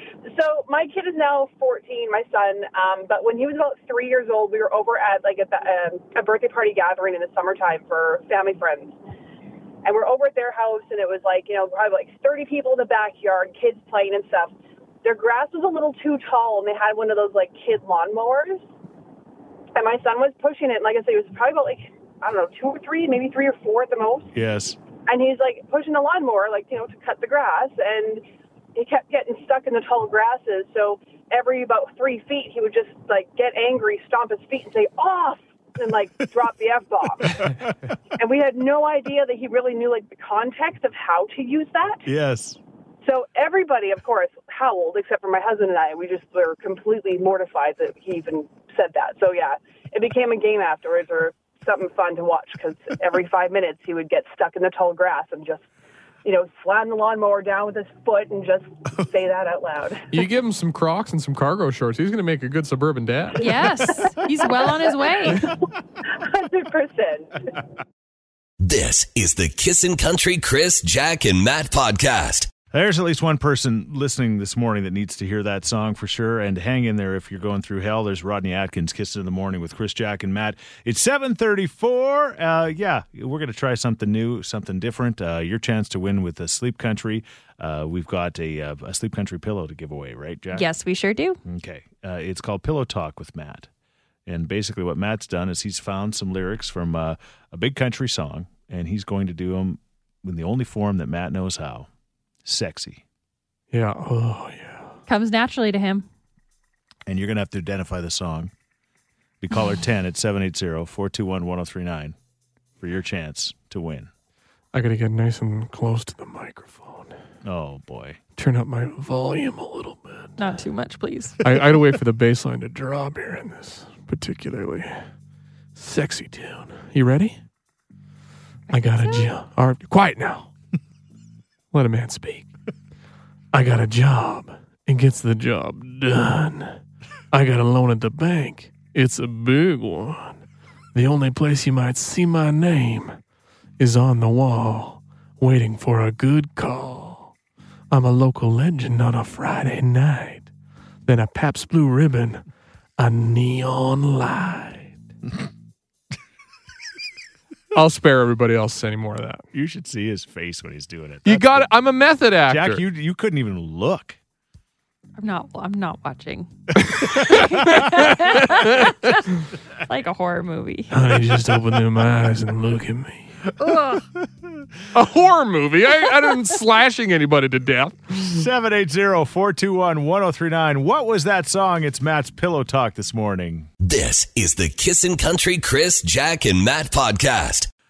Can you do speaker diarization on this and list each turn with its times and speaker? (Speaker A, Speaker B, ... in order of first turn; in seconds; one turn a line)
Speaker A: 0.2-9.0
Speaker A: 9.8-18.7
Speaker A: 19.8-24.3
Speaker B: 24.3-24.8
Speaker A: 25.1-28.2
Speaker A: 28.8-37.6
Speaker B: 37.4-37.7
Speaker A: 38.2-42.1
Speaker B: 42.0-42.6
Speaker A: 43.0-55.7
Speaker A: 56.2-60.2
Speaker C: 60.1-63.4
Speaker D: 63.4-65.5
Speaker A: 63.5-65.5
Speaker A: 66.1-67.4
Speaker E: 68.6-72.5
Speaker B: 72.7-90.7
Speaker D: 90.5-91.4
Speaker B: 91.5-93.7
Speaker B: 94.3-101.9
Speaker B: 102.5-103.0
Speaker C: 103.7-104.9
Speaker D: 105.1-106.1
Speaker B: 107.1-108.5
Speaker B: 109.4-112.2
Speaker B: 112.8-114.1
Speaker C: 114.7-117.1
Speaker B: 117.4-118.2
Speaker C: 118.4-120.3
Speaker D: 120.4-121.4
Speaker C: 121.4-125.0
Speaker C: 125.8-127.4
Speaker D: 128.7-129.3
Speaker C: 128.7-130.5
Speaker C: 131.7-132.5
Speaker C: 133.5-136.8
Speaker C: 137.3-140.4
Speaker C: 140.9-143.2
Speaker C: 143.8-147.3
Speaker C: 147.9-150.5
Speaker C: 151.1-152.4
Speaker C: 153.0-154.9
Speaker C: 157.7-159.4
Speaker B: 159.5-161.7
Speaker C: 161.2-162.8
Speaker B: 162.5-164.2
Speaker D: 165.2-166.5
Speaker C: 166.8-168.9
Speaker D: 167.0-169.3
Speaker B: 167.0-167.7
Speaker D: 169.9-170.9
Speaker C: 170.9-173.3
Speaker D: 173.6-174.0
Speaker B: 173.6-174.6
Speaker C: 174.9-178.4
Speaker B: 178.2-183.7
Speaker E: 183.8-187.7